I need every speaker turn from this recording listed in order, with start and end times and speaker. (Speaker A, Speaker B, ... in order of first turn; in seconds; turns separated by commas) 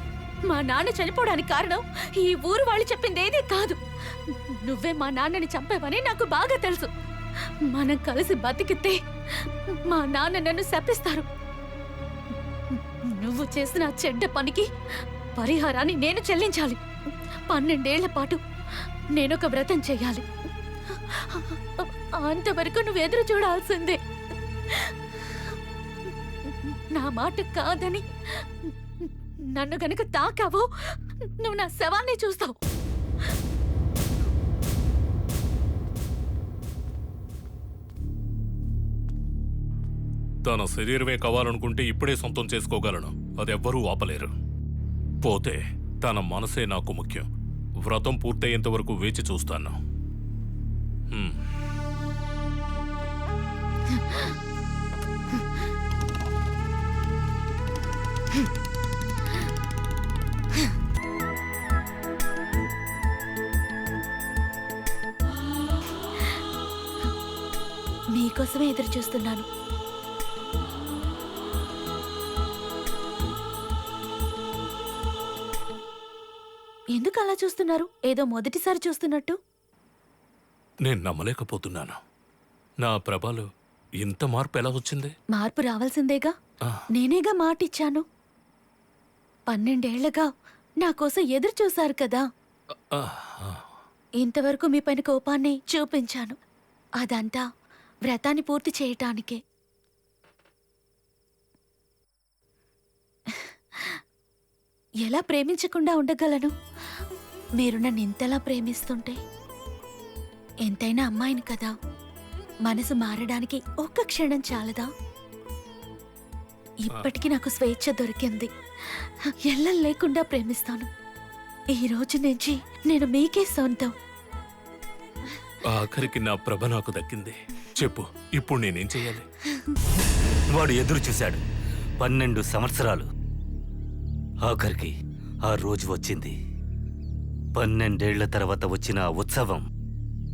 Speaker A: 0.5-6.9, Speaker A: 7.7-11.3, Speaker A: 12.8-14.7, Speaker A: 15.4-16.8, Speaker A: 17.5-18.4, Speaker A: 19.1-20.3, Speaker A: 20.9-24.0, Speaker A: 24.7-25.5, Speaker A: 26.4-32.6, Speaker B: 40.4-44.3, Speaker B: 45.2-47.3, Speaker B: 47.9-49.8, Speaker B: 51.1-51.4, Speaker A: 53.9-54.3, Speaker A: 68.2-69.5, Speaker A: 77.0-79.4, Speaker B: 80.9-82.0, Speaker B: 82.8-83.5, Speaker B: 84.0-85.2, Speaker A: 85.3-86.3, Speaker A: 86.9-88.0, Speaker A: 89.5-90.3, Speaker A: 90.8-92.2, Speaker B: 92.9-93.6, Speaker A: 94.2-96.3, Speaker A: 97.0-97.4, Speaker A: 98.1-99.4, Speaker A: 103.3-104.0, Speaker A: 105.0-106.5, Speaker A: 107.6-109.2, Speaker A: 110.7-111.8, Speaker A: 112.7-114.9, Speaker A: 116.8-120.9, Speaker A: 121.7-123.9, Speaker B: 125.6-129.3, Speaker C: 130.5-131.4, Speaker C: 132.0-133.1, Speaker C: 134.4-136.4, Speaker C: 137.6-139.7